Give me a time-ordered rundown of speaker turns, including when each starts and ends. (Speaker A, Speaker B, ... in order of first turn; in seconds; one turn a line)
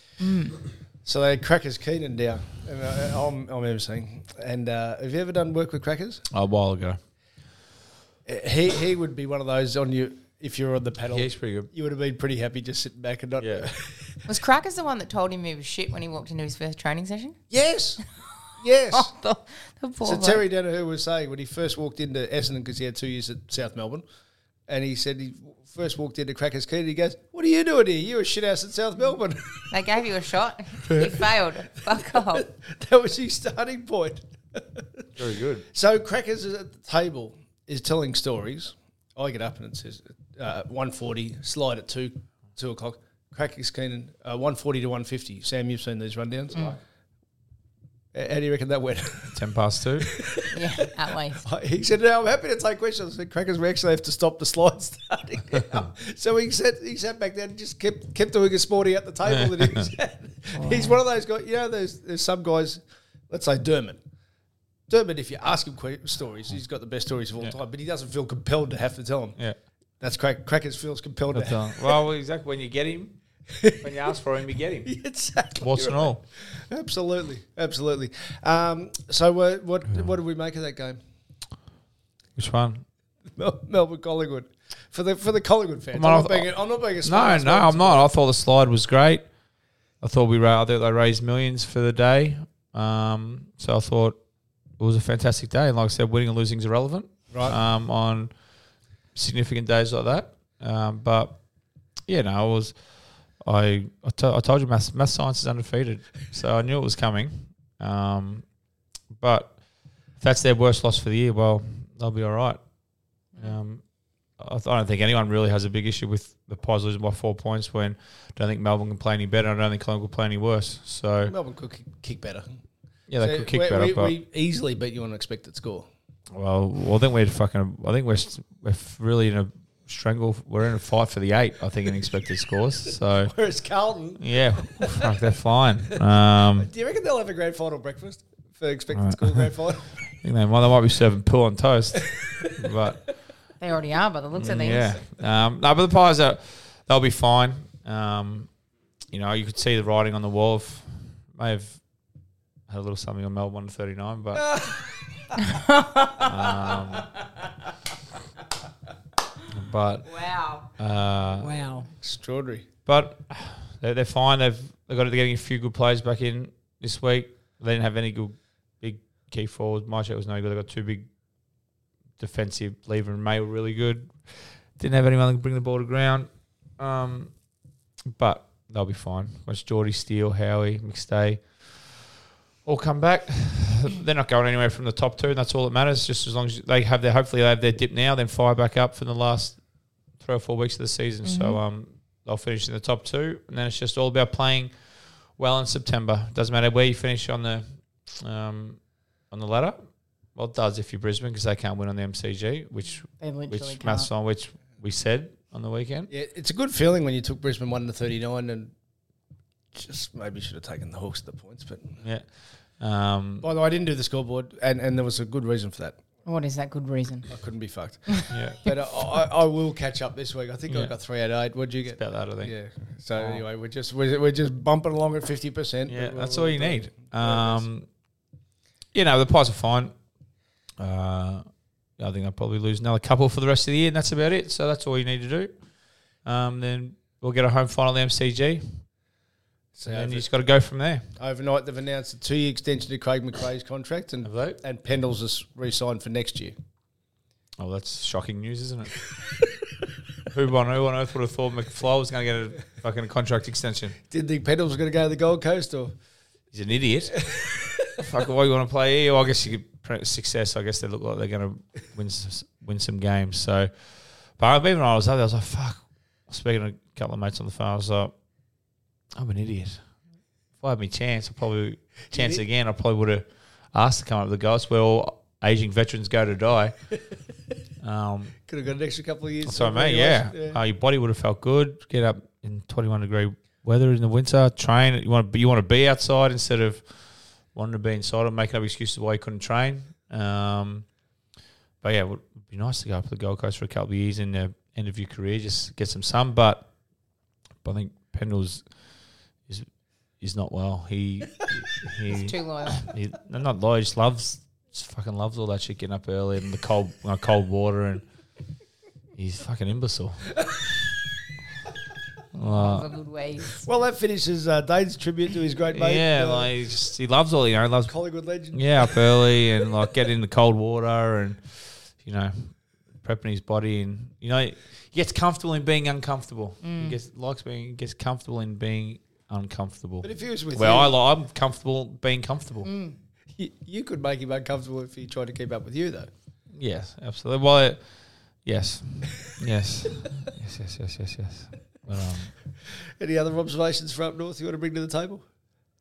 Speaker A: 0.2-0.6
Speaker B: 1.0-6.2
Speaker C: 6.3-7.0
Speaker B: 8.2-14.2
Speaker C: 11.1-11.7
Speaker C: 13.4-13.7
Speaker A: 14.3-17.4
Speaker B: 17.5-18.0
Speaker B: 18.6-19.1
Speaker A: 18.9-20.4
Speaker B: 20.0-24.0
Speaker B: 24.7-29.9
Speaker A: 29.7-32.5
Speaker B: 30.8-31.3
Speaker B: 31.9-35.1
Speaker C: 35.1-35.6
Speaker B: 35.7-46.8
Speaker B: 48.1-49.3
Speaker C: 49.3-50.1
Speaker B: 50.0-50.5
Speaker A: 50.5-51.4
Speaker B: 51.3-64.0
Speaker C: 59.3-59.9
Speaker A: 60.5-61.0
Speaker B: 64.9-69.4
Speaker B: 70.0-72.0
Speaker C: 71.3-74.9
Speaker B: 73.5-74.1
Speaker B: 74.8-81.0
Speaker C: 75.6-76.2
Speaker C: 82.3-82.8
Speaker B: 83.3-88.1
Speaker C: 85.9-89.3
Speaker C: 90.0-94.2
Speaker C: 94.8-98.3
Speaker B: 97.3-97.5
Speaker C: 99.1-101.4
Speaker C: 102.1-108.5
Speaker C: 109.1-109.6
Speaker C: 110.2-112.6
Speaker C: 113.4-113.8
Speaker C: 114.4-121.3
Speaker B: 121.2-122.6
Speaker C: 123.1-124.1
Speaker B: 123.2-125.9
Speaker C: 126.3-133.3
Speaker B: 133.2-134.2
Speaker C: 134.2-136.7
Speaker B: 134.8-135.1
Speaker B: 136.6-139.9
Speaker C: 138.9-139.5
Speaker C: 140.1-143.1
Speaker A: 143.6-145.0
Speaker C: 144.4-148.5
Speaker C: 149.1-151.8
Speaker C: 152.7-154.6
Speaker B: 154.3-154.8
Speaker A: 155.4-156.3
Speaker C: 156.2-157.1
Speaker C: 159.5-161.6
Speaker A: 160.2-160.6
Speaker B: 161.4-162.7
Speaker A: 161.4-161.9
Speaker C: 162.8-171.1
Speaker C: 172.2-177.3
Speaker C: 178.1-182.1
Speaker C: 182.6-189.6
Speaker C: 190.2-198.8
Speaker A: 191.2-191.6
Speaker C: 199.3-206.1
Speaker A: 203.2-204.1
Speaker B: 206.1-208.7
Speaker B: 209.7-212.0
Speaker C: 212.0-213.5
Speaker B: 213.4-216.0
Speaker A: 216.2-217.3
Speaker B: 217.3-227.7
Speaker A: 218.1-218.3
Speaker C: 218.3-218.6
Speaker C: 220.7-220.9
Speaker C: 221.9-222.6
Speaker C: 223.1-223.4
Speaker C: 225.9-227.8
Speaker C: 228.9-229.9
Speaker C: 230.8-231.4
Speaker C: 232.0-235.6
Speaker C: 236.2-238.8
Speaker B: 239.7-240.3
Speaker C: 239.9-241.0
Speaker B: 241.2-246.5
Speaker C: 244.2-244.6
Speaker C: 247.6-249.0
Speaker C: 250.3-254.0
Speaker B: 254.1-255.9
Speaker C: 256.5-257.2
Speaker B: 257.2-257.9
Speaker C: 257.9-268.1
Speaker C: 269.1-269.8
Speaker C: 270.6-277.0
Speaker B: 272.1-272.4
Speaker C: 277.8-278.4
Speaker B: 278.4-280.6
Speaker C: 279.4-286.9
Speaker C: 287.5-290.9
Speaker C: 291.8-296.7
Speaker C: 297.6-298.7
Speaker C: 300.2-308.1
Speaker A: 302.1-302.9
Speaker C: 309.1-310.4
Speaker C: 312.3-312.9
Speaker A: 312.5-313.6
Speaker B: 313.6-316.5
Speaker C: 315.7-317.9
Speaker B: 317.9-319.0
Speaker C: 318.5-332.7
Speaker A: 326.6-327.0
Speaker B: 330.0-330.9
Speaker A: 332.6-333.0
Speaker B: 333.3-336.1
Speaker C: 336.5-342.3
Speaker B: 342.7-345.2